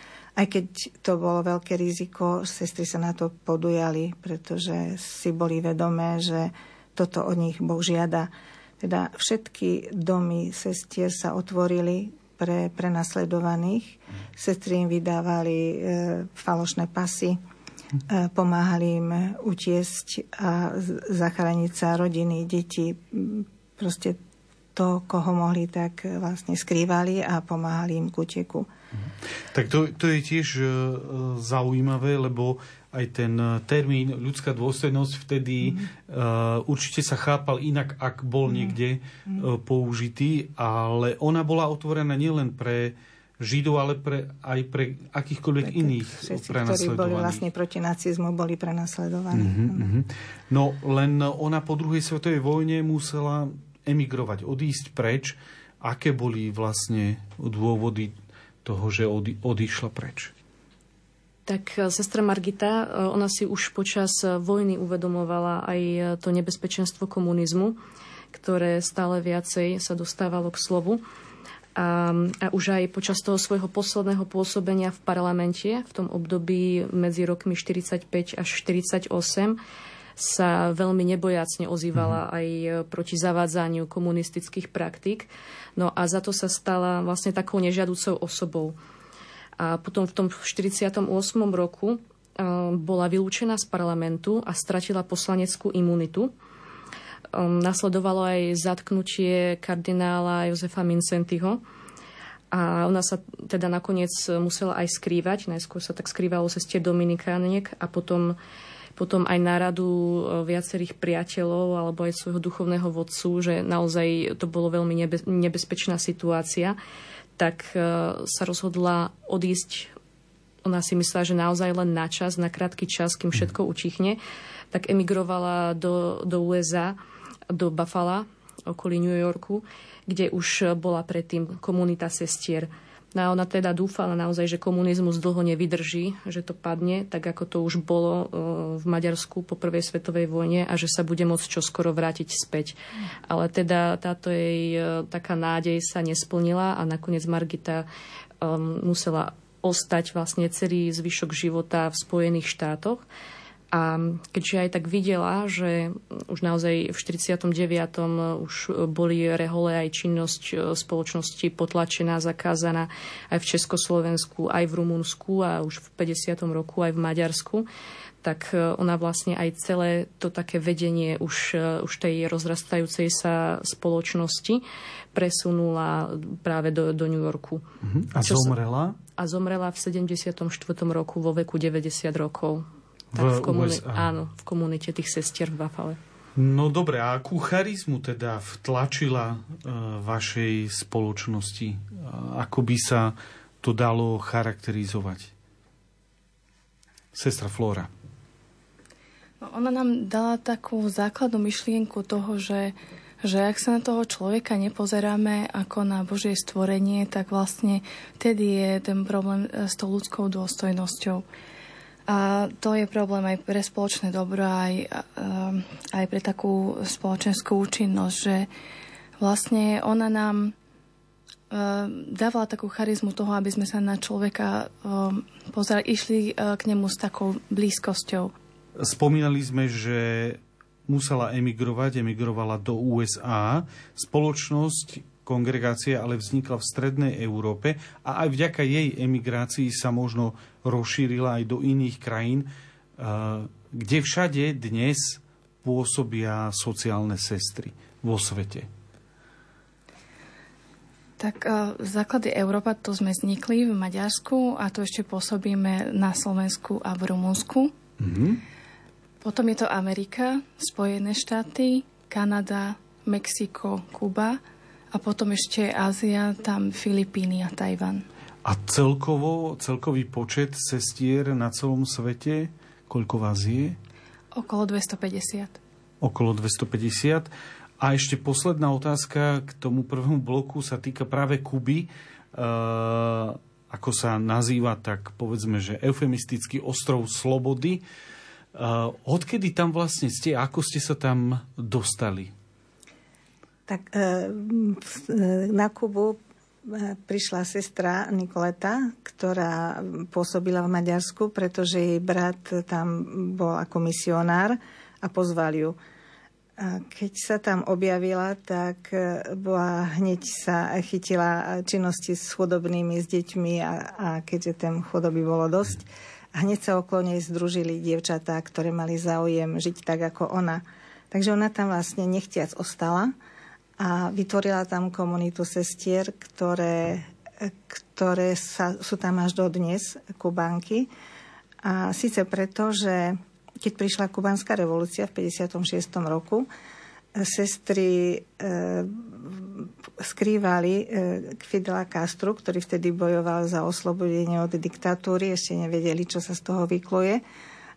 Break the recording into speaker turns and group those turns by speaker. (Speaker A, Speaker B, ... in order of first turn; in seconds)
Speaker A: 0.4-17.4, 18.1-24.2, 24.7-28.7, 45.6-49.9, 293.7-305.8, 306.6-323.1, 323.8-330.9, 331.6-336.5, 337.1-347.2
Speaker B: 29.5-47.4, 49.3-60.3, 82.0-82.2, 177.8-179.0, 183.1-184.1, 186.4-195.3, 197.1-197.9, 228.8-248.7, 258.0-258.4, 268.4-273.8, 276.0-287.8, 288.6-292.3
Speaker C: 61.5-67.8, 68.3-71.0, 71.8-79.6, 80.2-88.8, 89.6-96.3, 97.3-101.6, 102.5-108.4, 109.0-116.8, 117.4-119.9, 120.7-124.2, 124.7-127.0, 127.5-142.8, 143.3-147.9, 148.4-153.0, 153.7-167.7, 168.2-174.6, 175.1-177.6, 178.2-178.6, 179.2-186.0
Speaker D: 199.4-211.3, 212.1-218.5, 219.2-220.6, 221.5-228.3, 251.2-257.7, 259.2-264.4, 264.9-268.1, 274.3-275.6